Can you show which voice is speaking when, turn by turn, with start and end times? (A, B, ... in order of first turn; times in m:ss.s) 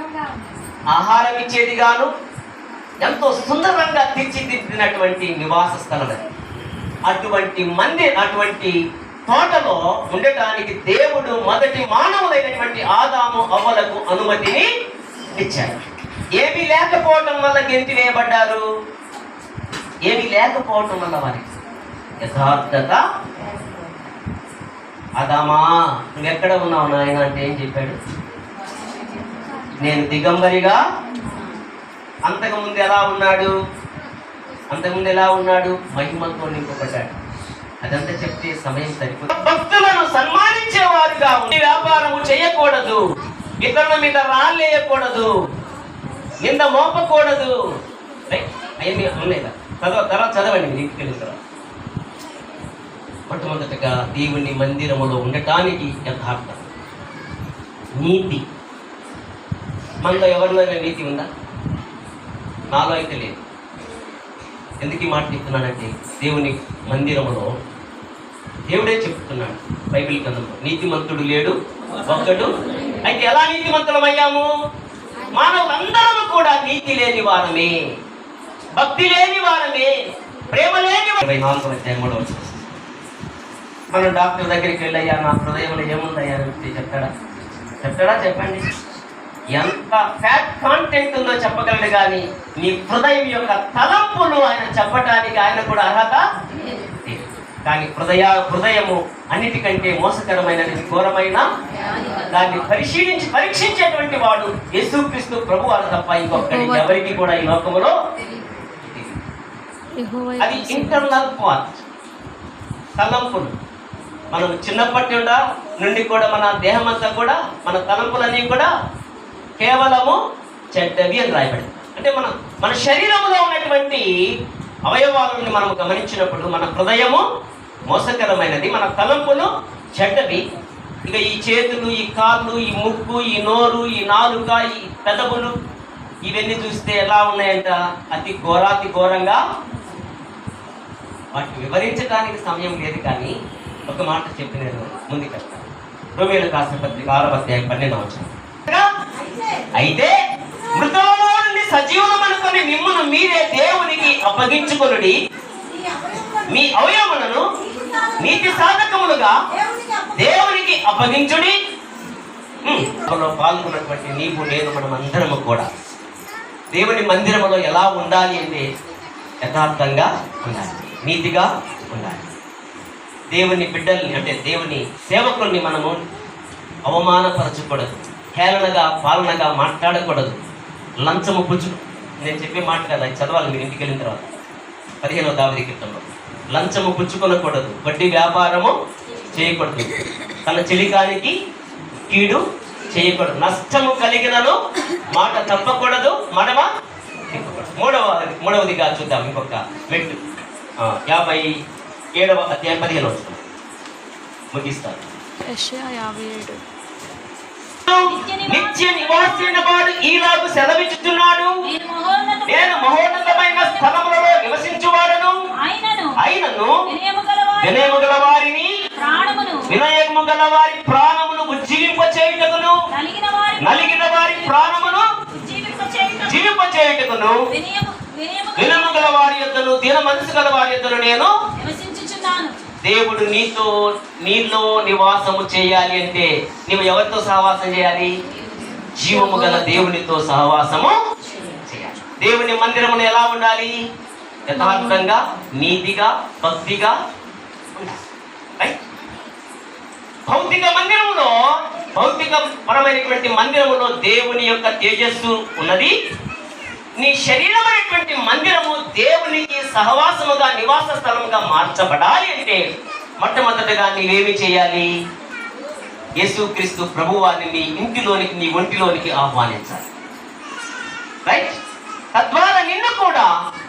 0:00.9-0:02.1 A
0:03.0-0:06.2 A
0:07.0-0:08.8 A
0:09.3-0:14.6 A
0:15.3-0:15.8 A
0:16.4-0:18.6 A
0:20.0-0:21.5 A
0:22.2-0:23.0 A
0:25.2-0:28.0 A
0:29.8-0:30.8 A
0:32.2-0:33.5 A
0:34.7-0:37.1 A
0:37.8-0:43.0 A
0:43.6-0:45.3 A
0:46.4-0:47.5 A
0:48.3-0:51.4 A
0:53.3-0:56.6 A
0:58.0-0:58.4 A
1:00.0-1:01.3 A
1:02.7-1:03.4 A
1:04.8-1:07.5 A
1:08.7-1:11.5 A
1:12.1-1:12.5 A
1:13.0-1:14.5 A
1:15.3-1:17.7 A
1:18.8-1:19.9 A
1:20.5-1:22.8 A
1:23.9-1:27.1 A
1:27.8-1:28.6 A
1:29.5-1:36.2 A
1:37.0-1:41.4 A
1:42.3-1:47.9 A
1:46.3-1:47.2 B
1:48.8-1:49.2 A
1:50.0-1:51.2 B
1:50.4-1:51.8 A
1:53.0-1:53.5 A
1:54.3-1:58.7 A
1:59.6-2:00.2 A
2:00.7-2:04.1 A
2:04.9-2:07.2 A
2:07.9-2:10.4 A
2:11.1-2:15.5 A
2:16.2-2:19.4 A
2:21.3-2:23.3 A
2:23.9-2:28.9 A
2:29.8-2:30.1 A
2:30.7-2:35.1 A
2:36.5-2:37.4 A
2:38.2-2:39.3 A
2:40.2-2:41.5 A
2:42.6-2:45.6 A
2:46.7-2:48.6 A
2:49.4-2:52.2 A
2:53.3-2:56.0 A
2:56.9-3:00.4 A
3:01.0-3:04.3 A
3:05.0-3:08.7 A
3:09.3-3:09.9 A
3:10.4-3:11.4 A
3:12.1-3:12.4 A
3:12.9-3:14.6 A
3:15.1-3:16.6 A
3:17.3-3:20.2 A
3:20.8-3:21.5 A
3:22.2-3:23.4 A
3:24.5-3:25.0 A
3:25.4-3:26.6 B
3:27.8-3:31.6 A
3:28.1-3:29.6 C
3:31.7-3:33.8 C
3:32.4-3:35.3 A
3:35.6-3:36.2 C
3:36.2-3:36.7 A
3:36.9-3:38.2 C
3:37.6-3:38.7 A
3:39.0-3:39.7 C
3:39.7-3:42.8 A
3:42.9-3:44.6 C
3:43.6-3:45.1 A
3:45.3-3:46.5 C
3:46.2-3:47.4 A
3:47.5-3:49.2 C
3:48.6-3:51.3 A
3:51.6-3:52.6 C
3:52.9-3:53.7 A
3:54.2-3:58.1 A
3:59.0-4:01.0 A
3:59.1-3:59.9 B
4:01.7-4:03.8 A
4:04.5-4:07.0 A
4:04.6-4:05.0 B
4:10.3-4:11.3 A
4:12.0-4:15.9 A
4:17.0-4:22.6 A
4:23.2-4:24.9 A
4:26.2-4:29.8 A
4:31.2-4:31.5 A
4:32.2-4:33.3 A